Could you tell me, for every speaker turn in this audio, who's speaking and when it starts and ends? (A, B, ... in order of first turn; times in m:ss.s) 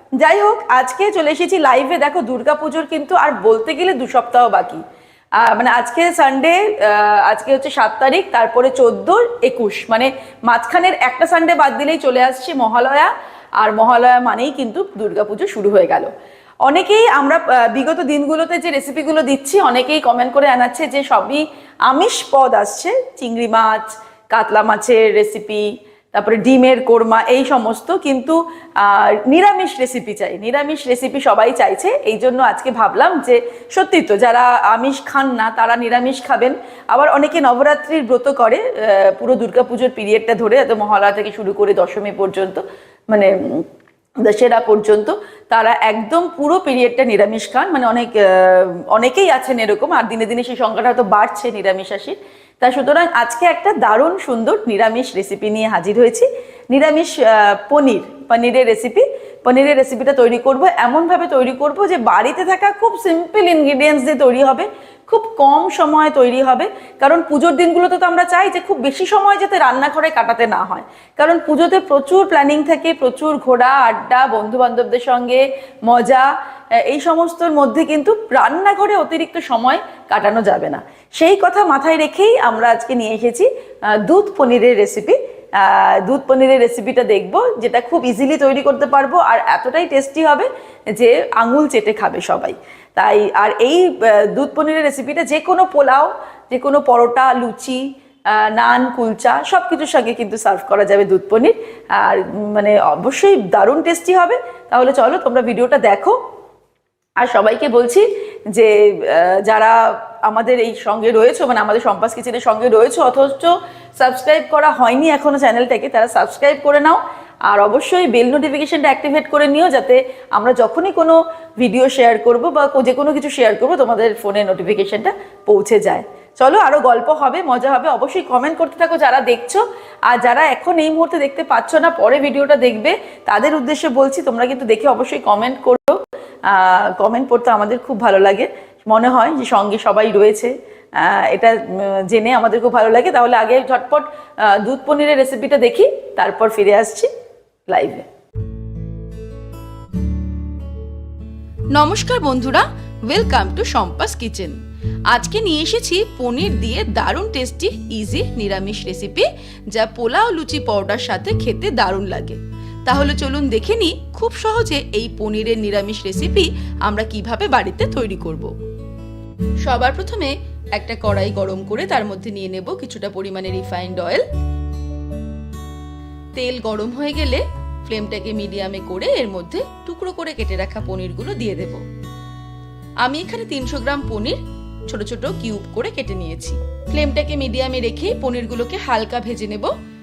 0:00.2-0:04.8 A
0:05.4-0:16.1 A
0:16.6-0:43.6 A
0:44.2-1:16.3 A
1:16.8-1:23.5 A
1:24.0-1:37.8 A
1:38.3-1:46.2 A
1:47.2-2:27.1 A
2:27.7-2:28.0 A
2:31.8-2:34.5 B
2:31.8-2:32.6 A
2:35.1-2:42.4 B
2:42.9-2:48.5 B
2:45.6-2:46.0 A
2:49.7-2:54.2 B
2:52.5-2:53.8 A
2:56.4-3:01.8 B
2:58.2-2:59.4 A
3:00.5-3:01.0 A
3:03.0-3:04.4 B
3:04.9-3:09.7 B
3:07.8-3:08.1 A